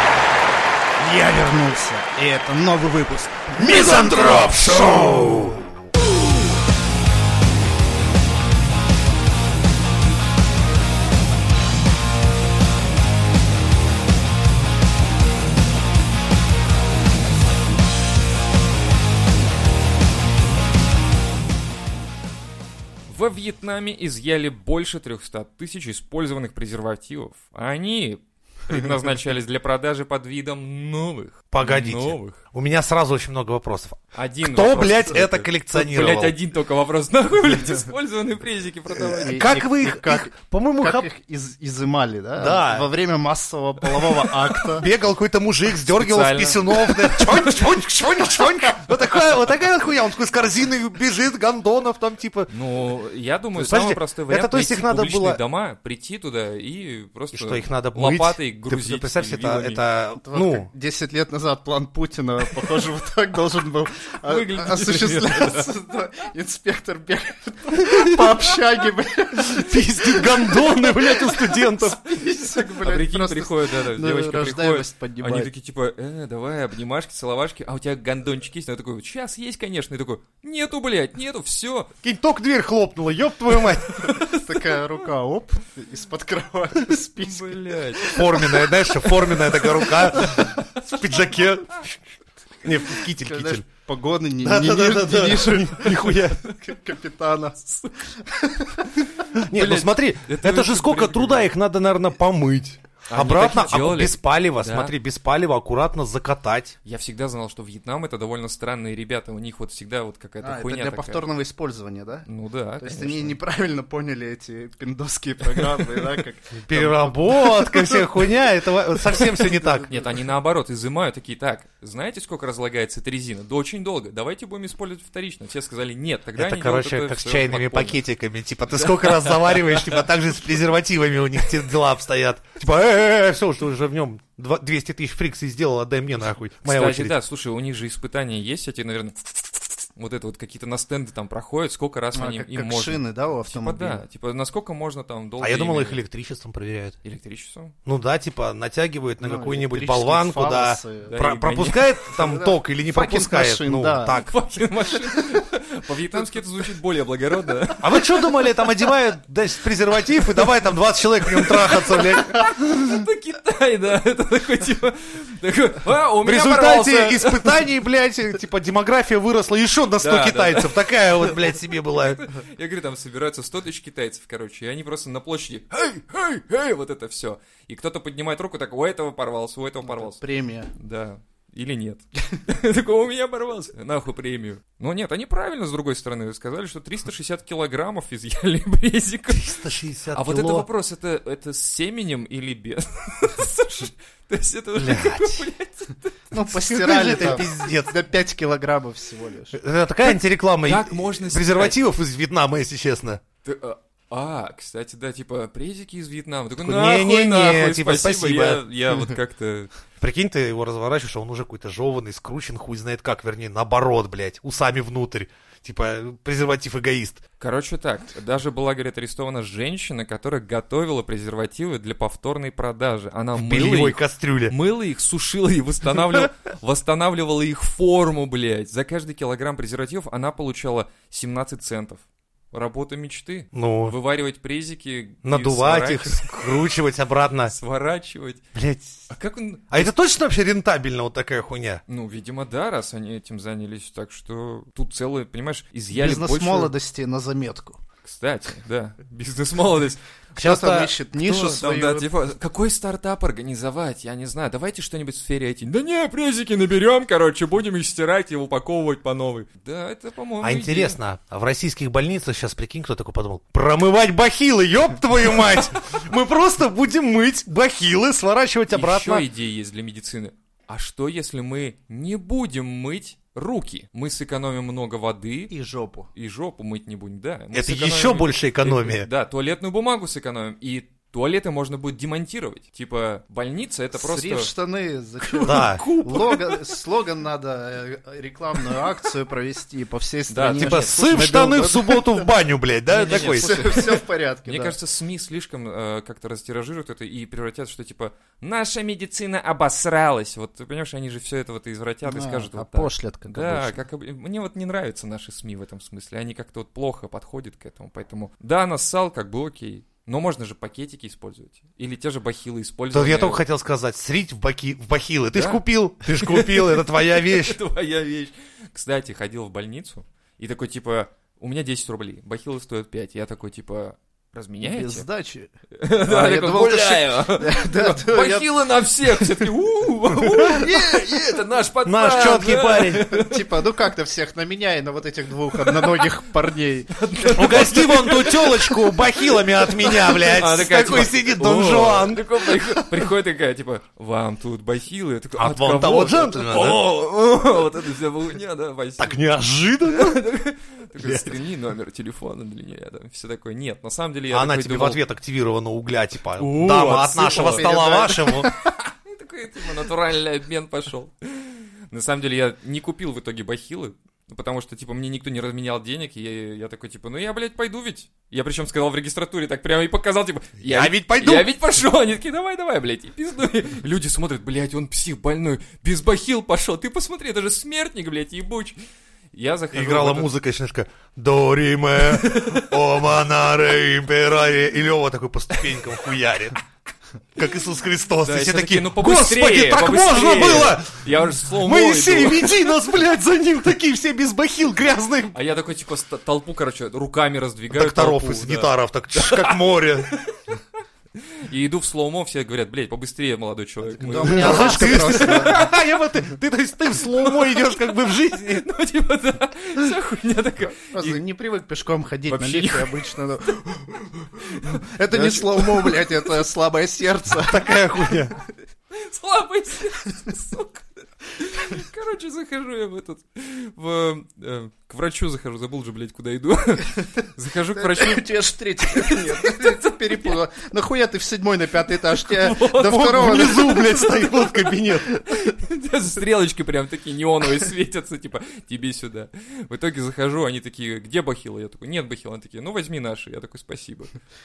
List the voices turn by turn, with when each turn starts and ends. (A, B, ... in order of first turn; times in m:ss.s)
0:01.0-0:05.4 A
0:03.6-0:05.7 B
0:23.1-0:32.4 C
0:31.5-0:36.4 B
0:34.1-0:39.4 C
0:38.9-0:41.0 B
0:39.1-0:44.9 A
0:42.4-0:42.9 B
0:44.7-0:52.5 B
0:45.8-0:47.8 C
0:52.5-0:59.8 C
0:53.6-0:55.4 B
0:57.3-1:00.7 B
1:00.2-1:15.5 A
1:04.3-1:05.6 C
1:09.4-1:12.0 B
1:12.4-1:21.9 C
1:22.0-1:24.1 B
1:24.1-1:30.3 A
1:24.1-1:24.6 C
1:27.2-1:28.1 C
1:28.1-1:32.0 B
1:32.6-1:33.6 B
1:33.1-1:38.9 A
1:34.4-1:36.4 B
1:39.3-1:41.5 C
1:39.4-1:46.7 B
1:43.1-1:44.9 C
1:46.8-1:51.2 C
1:50.4-1:52.2 A
1:52.2-1:53.4 C
1:52.8-1:58.3 A
1:56.5-1:59.9 B
1:59.0-2:00.1 A
1:59.9-2:08.0 C
2:06.3-2:17.1 B
2:08.8-2:10.0 C
2:16.6-2:19.3 C
2:20.0-2:26.0 C
2:22.1-2:24.0 A
2:25.4-2:27.0 B
2:27.0-2:27.7 C
2:27.8-2:34.3 B
2:29.2-2:31.2 A
2:31.1-2:31.9 C
2:32.0-2:34.3 A
2:34.1-2:38.2 C
2:34.9-2:35.4 A
2:36.1-2:36.4 A
2:37.8-2:42.7 B
2:41.4-2:47.7 C
2:46.2-2:52.2 B
2:50.0-3:00.2 C
2:59.8-3:00.7 A
3:00.7-3:16.1 C
3:09.3-3:10.7 B
3:14.8-3:15.4 B
3:16.3-3:19.6 A
3:16.4-3:17.9 B
3:19.5-3:23.2 B
3:20.6-3:21.8 C
3:23.4-3:29.7 C
3:26.6-3:28.6 B
3:30.0-3:37.2 B
3:37.4-3:56.8 C
3:43.4-3:44.5 B
3:53.5-3:54.0 B
3:55.2-3:57.5 B
3:57.5-3:58.4 C
3:58.5-3:59.0 B
3:59.1-3:59.9 C
3:59.7-4:01.8 B
4:01.9-4:06.7 C
4:05.9-4:07.8 A
4:08.0-4:10.0 C
4:10.3-4:12.1 A
4:10.4-4:10.9 B
4:11.2-4:21.0 C
4:20.4-4:29.2 B
4:28.7-4:35.5 C
4:35.5-4:36.1 A
4:36.1-4:44.5 C
4:37.5-4:39.1 B
4:43.9-4:52.3 A
4:45.2-4:46.8 C
4:45.4-4:45.8 B
4:50.3-4:51.0 C
4:50.6-4:53.5 B
4:52.9-5:13.4 C
4:53.0-4:54.7 A
5:02.0-5:03.8 A
5:12.9-5:17.6 B
5:15.3-5:25.0 C
5:24.6-5:25.5 A
5:25.8-5:33.4 C
5:26.0-5:28.5 A
5:30.2-5:31.4 A
5:31.8-5:33.0 B
5:33.0-5:37.7 A
5:35.6-5:36.1 C
5:36.9-5:49.2 C
5:37.3-5:42.9 B
5:45.4-5:46.8 B
5:49.0-5:50.2 B
5:49.8-5:55.0 C
5:51.0-5:51.3 B
5:54.3-5:58.5 B
5:56.4-6:18.8 C
5:57.4-5:58.5 A
6:10.6-6:11.5 B
6:19.3-6:20.3 C
6:19.7-6:26.6 B
6:22.0-6:22.7 C
6:27.4-6:35.4 B
6:28.2-6:32.7 C
6:35.3-6:40.3 C
6:37.7-6:40.1 B
6:41.4-6:45.7 C
6:43.8-6:45.6 A
6:44.2-6:48.6 B
6:47.1-6:47.8 C
6:48.4-6:51.2 C
6:50.9-6:57.6 A
6:52.3-6:53.1 C
6:54.4-6:56.1 C
6:57.4-6:58.3 B
6:58.9-7:08.3 C
7:07.8-7:14.0 A
7:08.8-7:10.3 C
7:12.1-7:14.7 C
7:12.9-7:15.1 B
7:15.3-7:24.1 C